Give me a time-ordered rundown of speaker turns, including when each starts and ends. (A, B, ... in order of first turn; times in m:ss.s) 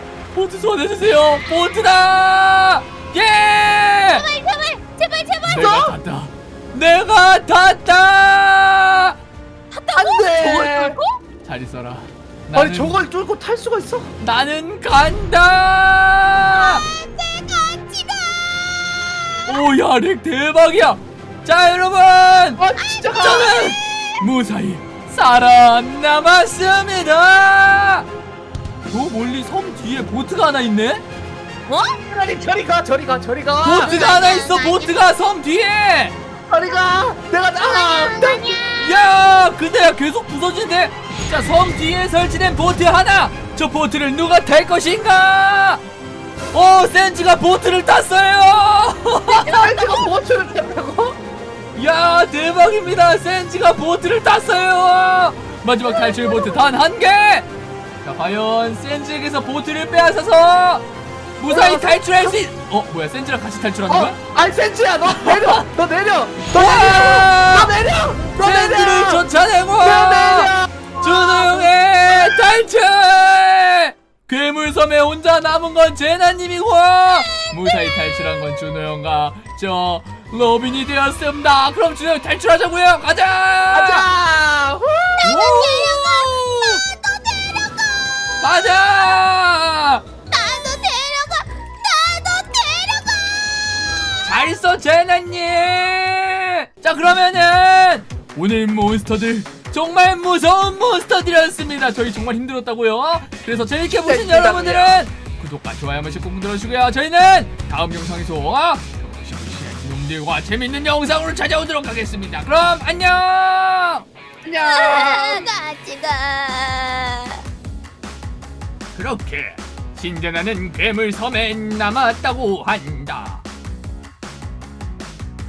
0:00.3-0:04.3 A
0:04.1-0:05.9 B
0:05.4-0:09.2 A
0:09.7-0:11.2 B
0:10.0-0:11.0 C
0:11.4-0:13.0 A
0:12.5-0:14.1 C
0:14.2-0:16.8 A
0:16.5-0:19.6 B
0:19.5-0:22.6 A
0:22.6-0:23.6 C
0:22.8-0:23.8 B
0:23.2-0:28.1 A
0:28.9-0:31.0 A
0:31.7-0:32.0 B
0:32.1-0:34.0 C
0:33.6-0:36.2 A
0:33.8-0:35.1 B
0:36.5-0:38.6 C
0:37.6-0:39.0 B
0:38.8-0:45.8 A
0:46.5-0:49.5 A
0:49.4-0:50.1 B
0:49.5-0:51.2 C
0:51.8-0:57.5 A
0:55.9-0:56.6 B
0:58.0-1:00.8 A
1:01.4-1:04.2 A
1:01.5-1:02.4 C
1:03.9-1:09.3 C
1:05.1-1:05.6 A
1:06.5-1:07.8 A
1:08.4-1:24.1 A
1:09.8-1:11.5 C
1:12.1-1:12.4 C
1:17.2-1:17.9 B
1:23.7-1:25.3 C
1:25.2-1:26.8 A
1:25.2-1:29.2 B
1:28.4-1:30.0 A
1:30.3-1:34.5 B
1:34.2-1:54.0 A
1:43.9-1:45.0 C
1:54.5-1:55.1 C
1:54.6-1:57.4 B
1:55.0-1:55.4 A
1:59.0-2:03.4 A